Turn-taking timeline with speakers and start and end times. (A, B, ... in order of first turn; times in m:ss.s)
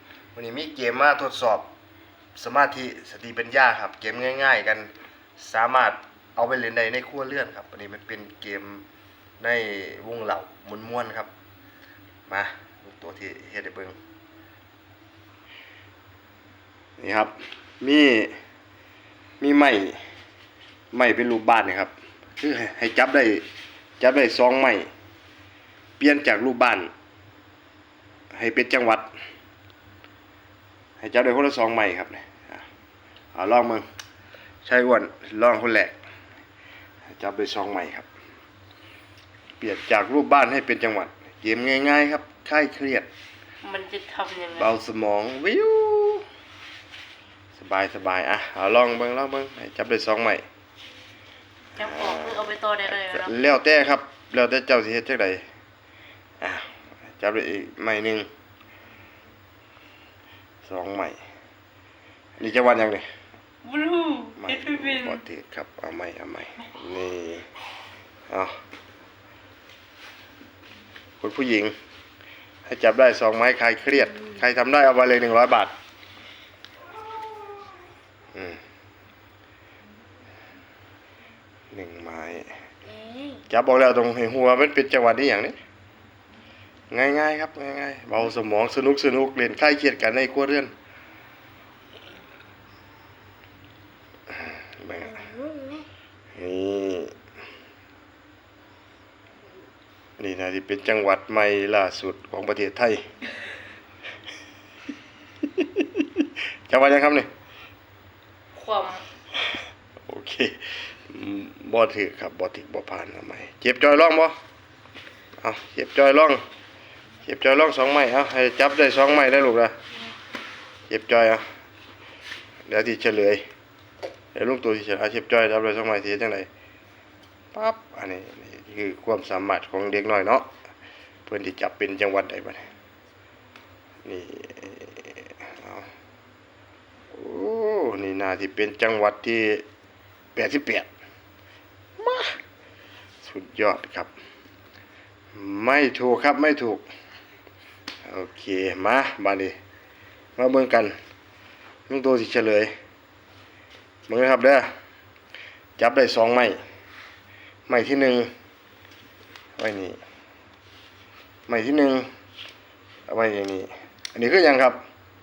0:00.4-0:01.7 A
0:02.4-0:08.9 A
0:09.4-0:11.3 A
0:12.3-0:14.0 A
0:17.0-0:18.4 A
0:19.4-0:20.0 A
0:20.9-0:23.4 A
0:24.0-0:24.9 A
0:26.0-0:26.9 A
0:28.3-0:29.1 A
0:31.0-0:32.7 A
0:33.4-0:33.9 A
0:34.6-0:36.0 A
0:37.1-0:38.1 A
0:39.6-0:43.1 A
0:43.6-0:44.7 B
0:44.6-0:46.3 A
0:47.6-0:50.4 A
0:51.8-0:53.3 B
0:51.8-0:55.4 A
0:56.4-0:58.3 A
1:00.6-1:01.2 A
1:02.4-1:03.1 A
1:03.6-1:05.2 B
1:04.4-1:07.5 A
1:11.2-1:11.8 A
1:12.7-1:15.7 A
1:18.3-1:18.6 A
1:21.7-1:22.5 A
1:23.5-1:25.6 A
1:26.9-1:30.7 A
1:34.3-1:35.4 A
1:36.4-1:37.1 A
1:40.2-1:43.0 A
1:45.6-1:46.0 A
1:46.7-1:47.3 A
1:48.5-1:49.0 B
1:50.1-1:54.4 A
1:55.4-1:56.4 A
1:57.2-1:59.7 A
2:00.9-2:01.4 A
2:02.7-2:03.4 A
2:04.3-2:06.5 A
2:07.5-2:10.5 A
2:11.3-2:12.6 A
2:14.0-2:15.9 A
2:17.1-2:19.6 A
2:20.4-2:20.9 A
2:22.0-2:22.4 A
2:23.2-2:24.1 A
2:25.3-2:26.8 A
2:28.1-2:29.6 A
2:30.4-2:31.0 A
2:31.9-2:32.7 A
2:34.1-2:34.7 A
2:35.8-2:36.6 A
2:37.7-2:38.3 A
2:39.6-2:40.0 A
2:41.5-2:42.1 A
2:43.1-2:44.8 A